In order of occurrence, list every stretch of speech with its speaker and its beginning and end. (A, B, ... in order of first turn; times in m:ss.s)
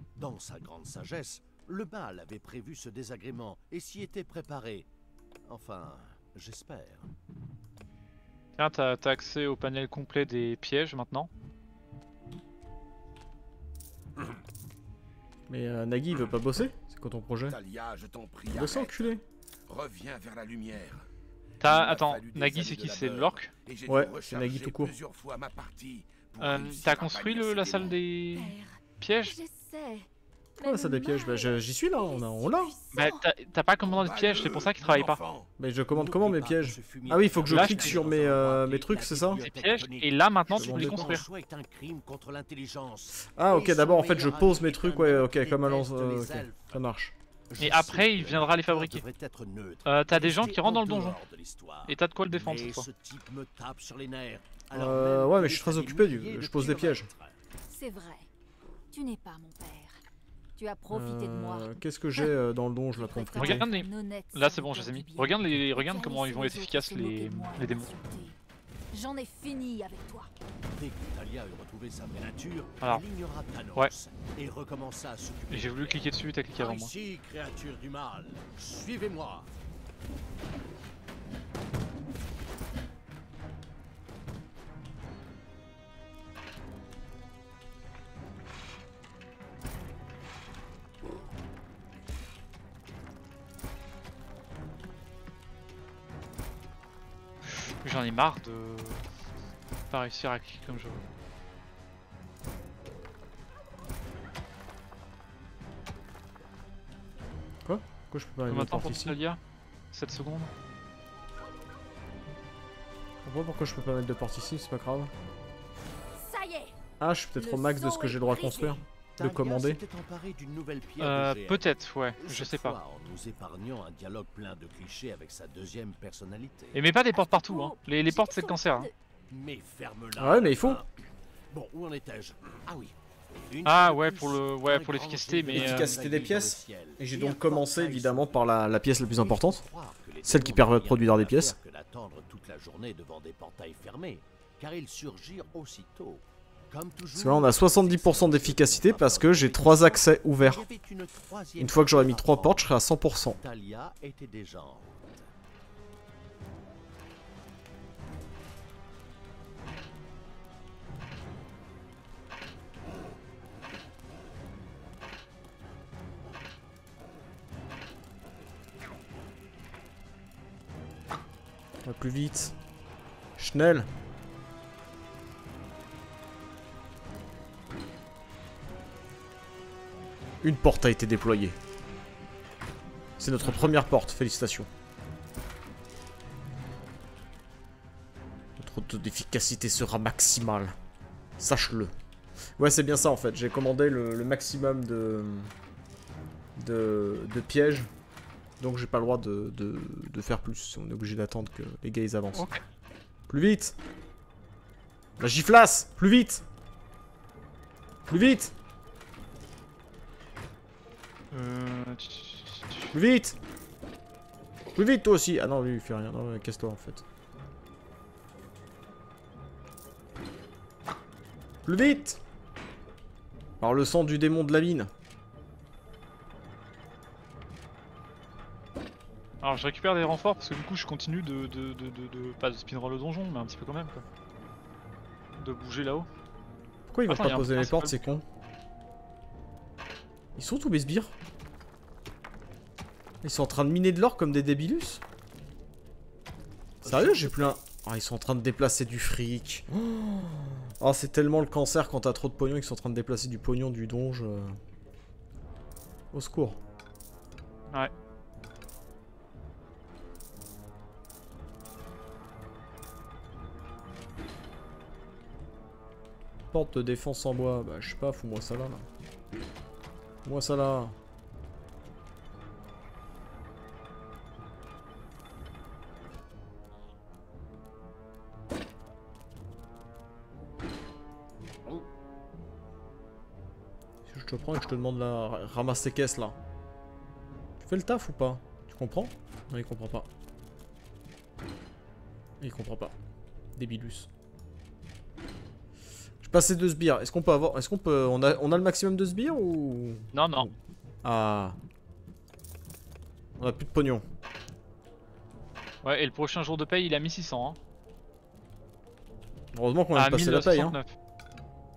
0:00.2-0:04.9 A
0:05.5-0:07.1 A
0:08.6-0:11.3 B
0:15.5-0:17.6 C
0:17.5-0:21.1 D
0:18.5-0:19.2 C
0:21.6-0:23.5 B
0:21.6-0:28.0 D
0:23.9-0:25.0 C
0:26.4-0:29.4 B
0:28.4-0:33.2 E
0:30.6-0:32.8 C
0:32.9-0:35.2 B
0:33.8-0:35.5 D
0:35.6-0:39.5 C
0:35.9-0:46.8 A
0:37.5-0:38.0 B
0:39.4-0:41.2 B
0:40.6-0:41.2 C
0:43.3-0:47.2 C
0:47.5-0:57.4 A
0:47.6-0:49.0 B
0:49.9-0:51.2 B
0:51.9-0:52.9 B
0:54.7-0:57.1 C
0:57.7-0:58.3 E
0:58.9-1:00.0 E
1:00.6-1:01.7 E
1:00.9-1:03.7 C
1:03.0-1:08.4 E
1:03.4-1:07.9 B
1:08.9-1:10.3 E
1:10.7-1:19.5 A
1:15.5-1:16.9 B
1:37.5-1:39.0 B
1:39.9-1:41.0 B
1:47.6-1:49.2 C
1:48.5-1:49.4 B
1:49.9-1:50.5 B
1:53.2-1:55.1 C
1:56.1-1:56.8 E
1:57.0-1:59.8 C
1:57.4-1:58.8 E
1:59.2-2:06.8 A
2:01.0-2:02.8 B
2:06.7-2:08.9 B
2:07.1-2:08.9 E
2:09.3-2:10.9 A
2:10.2-2:10.8 C
2:11.5-2:13.0 A
2:13.5-2:18.4 A
2:13.6-2:16.0 B
2:15.5-2:19.6 C
2:19.1-2:32.7 A
2:20.2-2:21.6 C
2:27.2-2:30.6 C
2:31.6-2:33.4 C
2:33.4-2:35.3 A
2:51.8-2:52.6 C
2:53.4-2:53.9 C
3:00.4-3:01.6 C
3:03.2-3:04.7 C
3:03.4-3:03.7 B
3:08.6-3:10.7 C
3:11.4-3:11.9 C
3:12.6-3:15.5 C
3:16.6-3:17.9 C
3:18.6-3:22.5 C
3:22.3-3:22.6 B
3:23.3-3:23.8 C
3:25.2-3:26.5 C
3:28.1-3:28.6 C
3:31.3-3:33.0 B
3:32.9-3:33.4 C
3:34.8-3:37.0 C
3:41.6-3:42.2 C
3:43.6-3:44.9 C
3:49.4-3:54.0 B
3:55.4-3:56.1 B
3:56.9-3:58.2 C
3:57.1-3:58.2 B
4:00.4-4:01.1 C
4:03.2-4:05.0 C
4:06.8-4:14.6 C
4:06.8-4:07.5 A
4:16.1-4:16.6 C
4:26.5-4:28.9 C
4:30.2-4:31.0 C
4:44.1-4:46.4 C
4:47.6-4:50.1 C
4:52.4-4:53.0 C
4:53.6-4:54.1 C
4:56.2-5:01.6 C
5:00.1-5:00.5 B
5:03.4-5:04.0 C
5:05.8-5:07.6 B
5:09.5-5:10.8 C
5:10.0-5:10.9 B